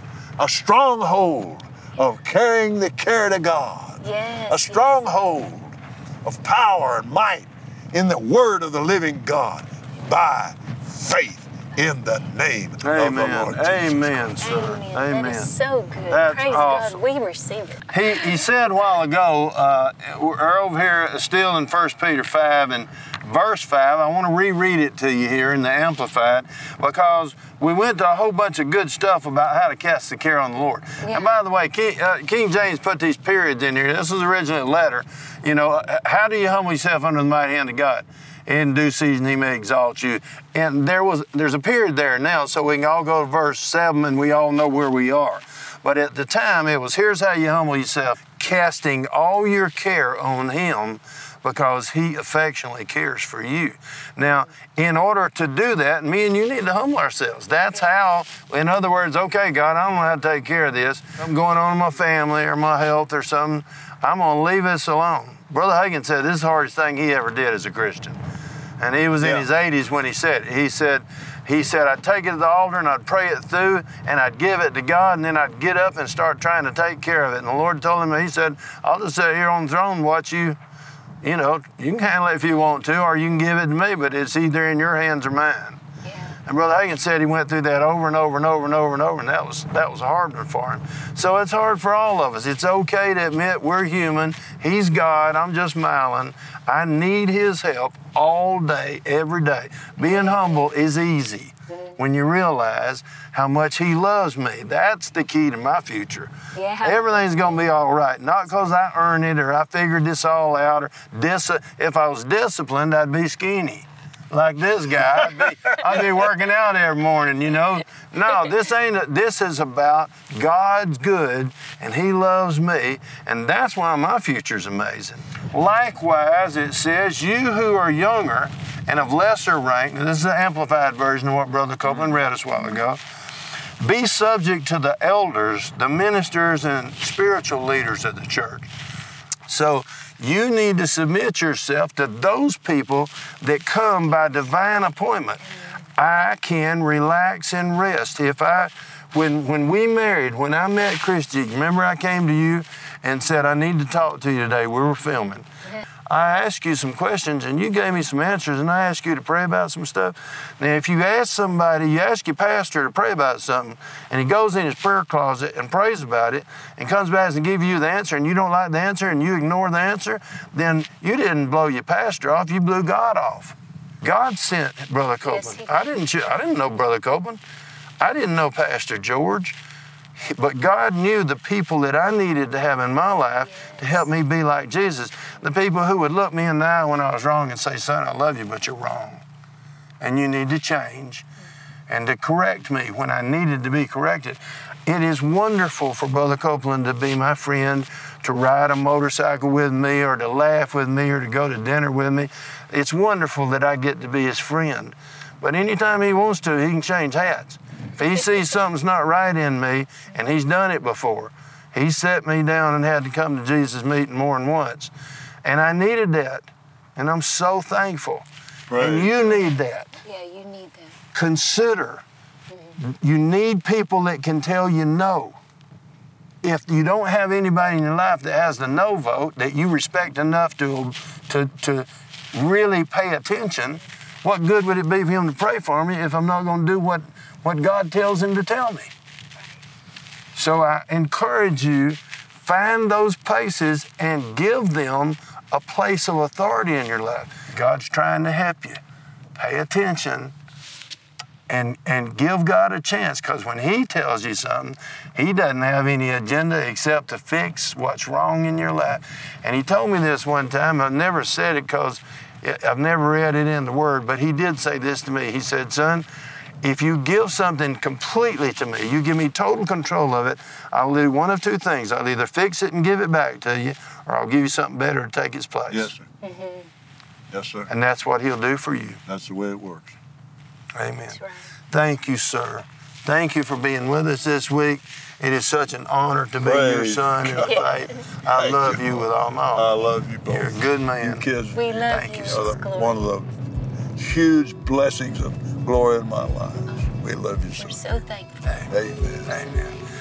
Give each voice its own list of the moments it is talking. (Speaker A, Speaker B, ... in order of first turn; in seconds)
Speaker A: 0.4-14.3, 69.2-69.5, 218.7-219.3, 275.7-276.1, 277.3-277.7, 279.1-279.9, 286.4-287.6, 288.3-293.3, 294.0-297.8, 298.7-299.4
Speaker B: 4.0-4.9, 14.4-18.4, 31.0-31.3, 86.0-86.4, 100.0-100.6, 101.7-102.0, 106.5-107.3, 145.5-145.7, 175.2-175.9, 183.4-184.1, 220.0-220.9, 222.5-222.8, 276.2-276.7, 281.1-281.5, 287.4-288.0, 291.5-293.1, 297.6-298.4
Speaker C: 12.8-15.5, 16.1-17.0, 17.9-68.2, 68.8-80.6, 81.2-85.8, 86.5-106.3, 106.8-133.0, 133.8-138.7, 139.5-145.4, 146.0-155.4, 156.1-177.4, 178.0-179.6, 180.2-189.2, 190.0-191.3, 191.9-214.9, 215.4-219.9, 221.1-222.0, 222.8-225.4, 226.4-238.9, 240.3-248.8, 249.3-250.3, 251.5-266.1, 266.6-275.9, 277.7-279.0, 280.8-281.2, 281.7-291.2, 291.9-292.6, 298.4-298.7, 299.2-299.8